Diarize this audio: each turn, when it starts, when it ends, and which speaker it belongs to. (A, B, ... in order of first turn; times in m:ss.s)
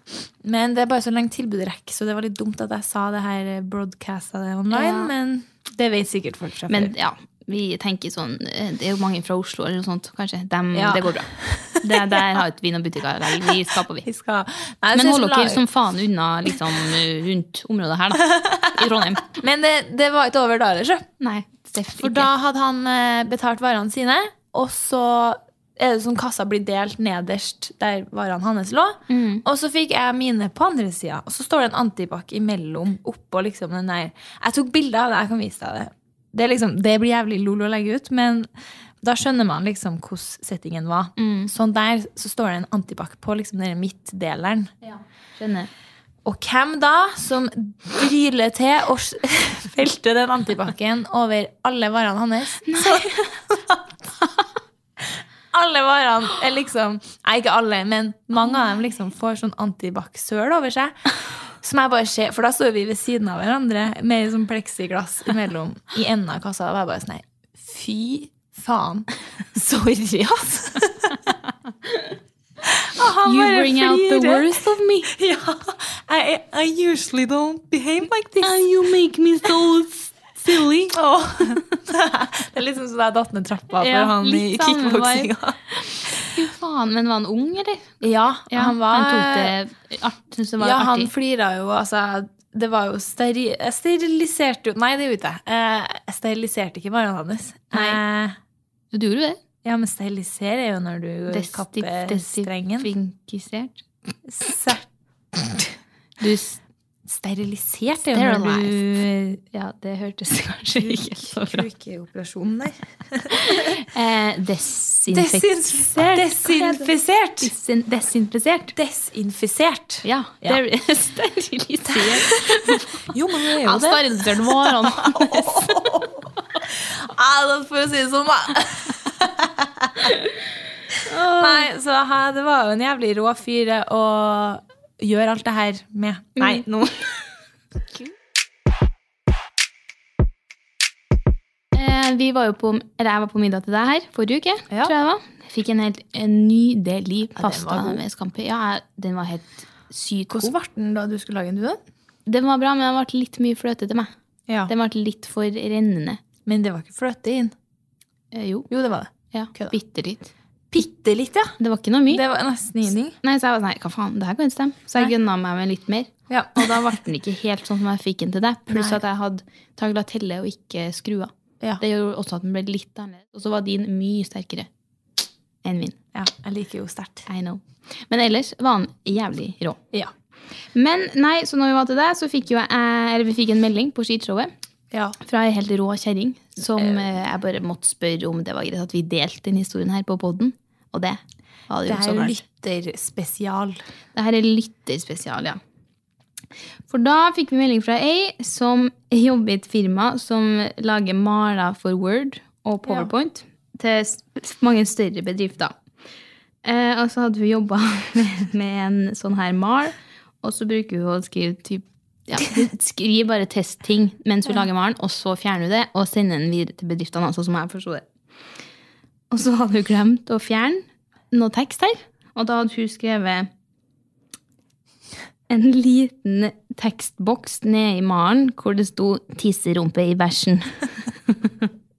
0:00.4-0:06.9 A
0:04.7-0:05.1 B
0:06.7-0:14.1 B
0:10.7-0:12.3 A
0:13.4-0:15.6 A
0:14.9-0:19.3 B
0:18.2-0:21.1 A
0:21.2-0:22.3 B
0:22.0-0:38.5 A
0:29.1-0:29.4 B
0:39.0-0:44.7 A
0:41.2-0:41.5 B
0:44.8-0:45.7 B
0:46.2-0:54.1 A
0:52.7-0:53.3 B
0:55.5-1:01.0 A
1:01.6-1:11.2 A
1:12.6-1:18.8 A
1:13.2-1:15.1 B
1:18.4-1:21.0 B
1:20.9-1:25.6 A
1:23.8-1:31.1 B
1:28.0-1:29.6 A
1:30.6-1:38.4 A
1:37.7-1:38.0 B
1:38.9-1:39.4 B
1:39.6-1:42.9 A
1:41.3-1:43.8 B
1:44.3-1:45.8 A
1:46.2-1:46.6 B
1:47.1-1:49.4 A
1:48.1-1:48.8 B
1:49.5-1:51.7 B
1:50.8-1:53.7 A
1:53.4-1:56.9 B
1:55.1-1:57.5 A
1:57.4-1:58.8 B
1:58.8-2:00.6 A
2:00.0-2:06.1 B
2:01.9-2:10.1 A
2:11.0-2:11.7 B
2:11.3-2:17.0 A
2:16.4-2:16.6 B
2:21.7-2:30.5 B
2:27.4-2:28.0 A
2:30.3-2:31.8 A
2:32.3-2:34.1 B
2:34.7-2:36.2 B
2:36.4-2:37.5 A
2:38.3-2:38.7 B
2:38.7-2:39.8 A
2:39.3-2:40.3 B
2:40.7-2:41.6 A
2:41.6-2:42.2 B
2:42.1-2:43.2 A
2:43.2-2:54.7 B
2:46.3-2:47.0 A
2:48.7-2:49.0 A
2:55.6-2:56.0 B
2:56.1-2:57.3 A
2:57.3-2:59.8 B
3:00.8-3:04.5 B
3:05.2-3:12.4 B
3:06.8-3:07.1 A
3:11.8-3:13.8 A
3:14.2-3:15.6 B
3:16.9-3:25.7 B
3:26.6-3:38.1 B
3:39.3-3:43.5 B
3:45.5-3:50.8 B